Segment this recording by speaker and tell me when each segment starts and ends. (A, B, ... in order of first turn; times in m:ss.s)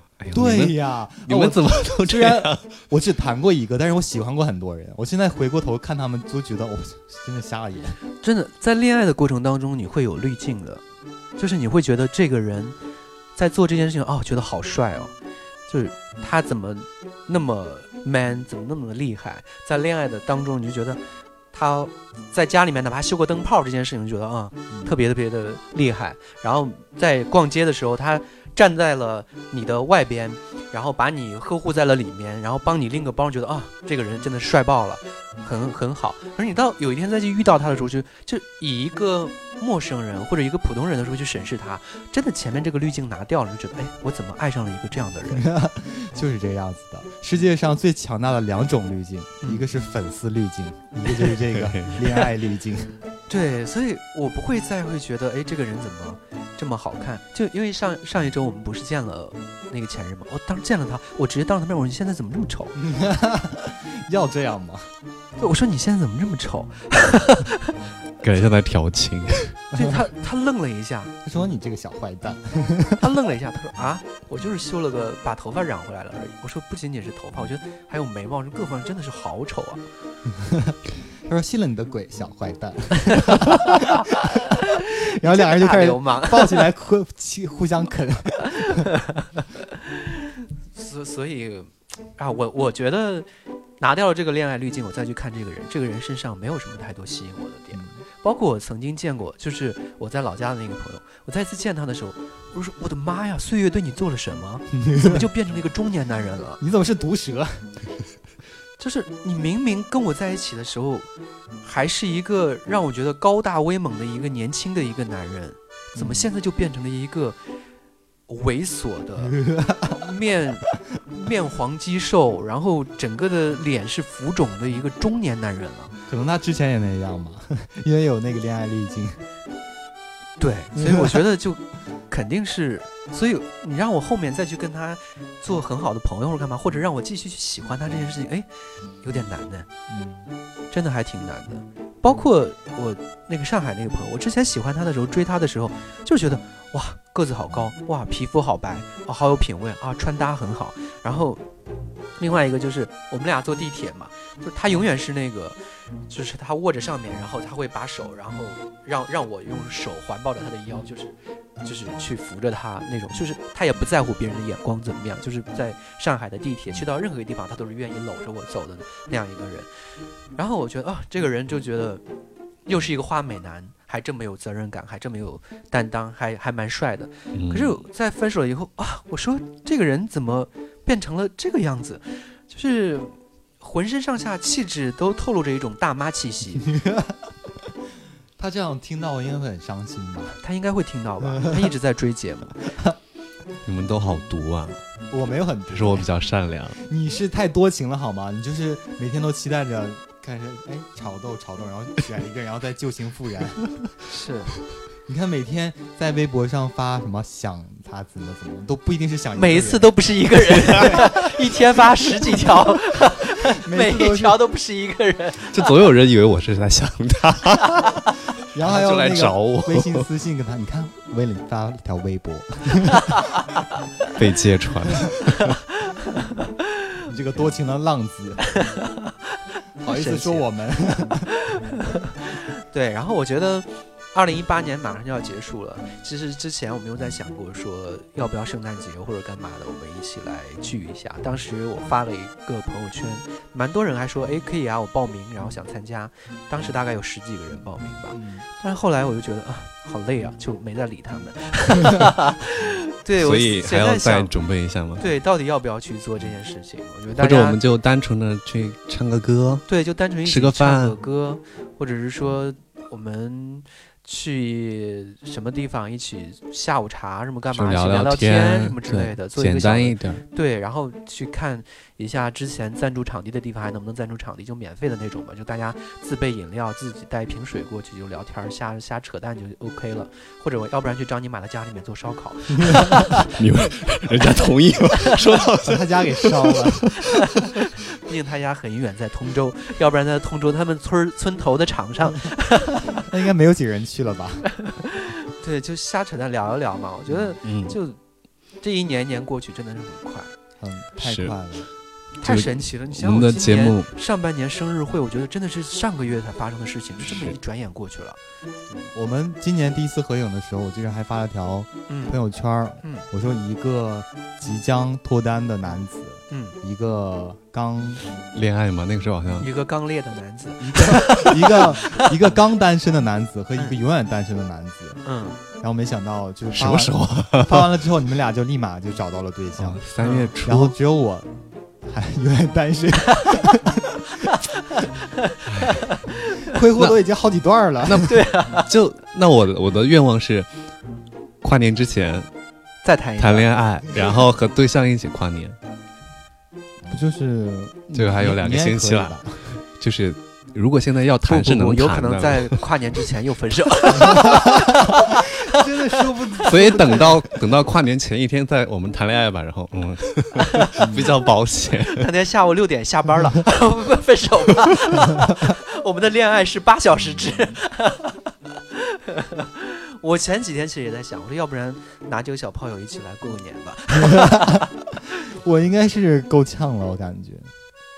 0:00.2-0:02.8 A
0:00.3-0:08.0 B
0:08.2-0:10.8 C
0:11.4-0:12.8 C
0:13.4-0:15.1 C
0:15.7-0:21.0 C
0:21.5-0:45.5 C
0:24.7-0:25.0 B
0:45.3-0:53.0 B
0:51.4-0:52.0 A
0:53.3-1:02.8 C
1:02.8-1:04.9 B
1:05.4-1:07.8 C
1:08.2-1:09.6 A
1:09.8-1:11.1 C
1:11.2-1:13.0 B
1:13.0-1:19.8 C
1:20.3-1:28.9 B
1:23.2-1:24.0 C
1:25.2-1:26.6 C
1:30.7-1:33.3 C
1:33.8-1:46.6 C
1:37.7-1:38.0 B
1:44.7-1:45.3 B
1:46.6-1:47.7 B
1:48.8-1:51.1 C
1:51.6-1:57.4 C
1:56.0-1:56.3 B
1:58.3-1:59.4 C
1:59.2-2:00.1 B
1:59.9-2:05.9 C
2:06.1-2:09.2 B
2:10.4-2:18.5 C
2:10.8-2:11.2 B
2:19.0-2:19.7 C
2:19.9-2:20.3 B
2:20.7-2:31.4 C
2:32.2-2:49.7 C
2:50.4-2:52.0 C
2:52.7-3:06.7 C
2:57.3-2:57.8 A
3:06.7-3:07.2 B
3:08.4-3:10.4 B
3:10.4-3:12.7 C
3:11.2-3:11.7 B
3:13.6-3:14.8 A
3:15.1-3:16.1 B
3:15.7-3:16.8 A
3:16.8-3:23.9 B
3:24.1-3:24.5 C
3:25.1-3:31.3 B
3:29.4-3:35.5 C
3:33.6-3:34.4 B
3:35.5-3:38.0 A
3:38.5-3:43.2 B
3:38.6-3:40.1 A
3:44.2-3:45.6 A
3:47.1-3:48.6 B
3:49.8-3:51.3 B
3:49.8-3:50.5 C
3:51.5-4:14.3 C
4:08.1-4:08.5 B
4:13.2-4:15.0 A
4:15.0-4:17.6 C
4:17.2-4:19.7 A
4:19.7-4:43.3 C
4:20.2-4:21.0 A
4:27.5-4:30.2 A
4:43.4-4:46.9 A
4:45.6-4:47.5 B
4:48.0-4:53.0 C
4:52.9-4:54.5 B
4:54.8-4:58.0 C
4:57.4-4:57.8 A
4:58.6-5:00.3 C
5:00.6-5:01.7 B
5:01.0-5:01.4 A
5:02.2-5:03.9 A
5:02.2-5:08.2 C
5:08.9-5:18.0 B
5:11.9-5:12.2 C
5:16.3-5:16.6 C
5:18.3-5:19.5 A
5:19.4-5:22.3 C
5:20.6-5:25.0 B
5:25.0-5:25.4 C
5:25.6-5:29.8 B
5:26.5-5:27.8 A
5:29.6-5:30.8 A
5:30.0-5:30.3 C
5:30.4-5:34.4 B
5:35.8-5:36.3 C
5:36.4-5:38.1 B
5:37.9-5:40.5 A
5:38.0-5:38.7 C
5:41.4-5:42.3 A
5:42.8-5:43.5 C
5:43.2-5:45.6 A
5:46.9-5:49.5 B
5:47.9-5:52.6 A
5:51.3-5:56.8 C
5:54.1-5:54.4 B
5:55.5-5:57.2 B
5:56.5-6:02.1 A
6:00.8-6:01.1 B
6:01.9-6:08.2 C
6:07.2-6:07.5 B
6:08.7-6:14.6 C
6:14.0-6:14.6 B
6:15.3-6:17.5 B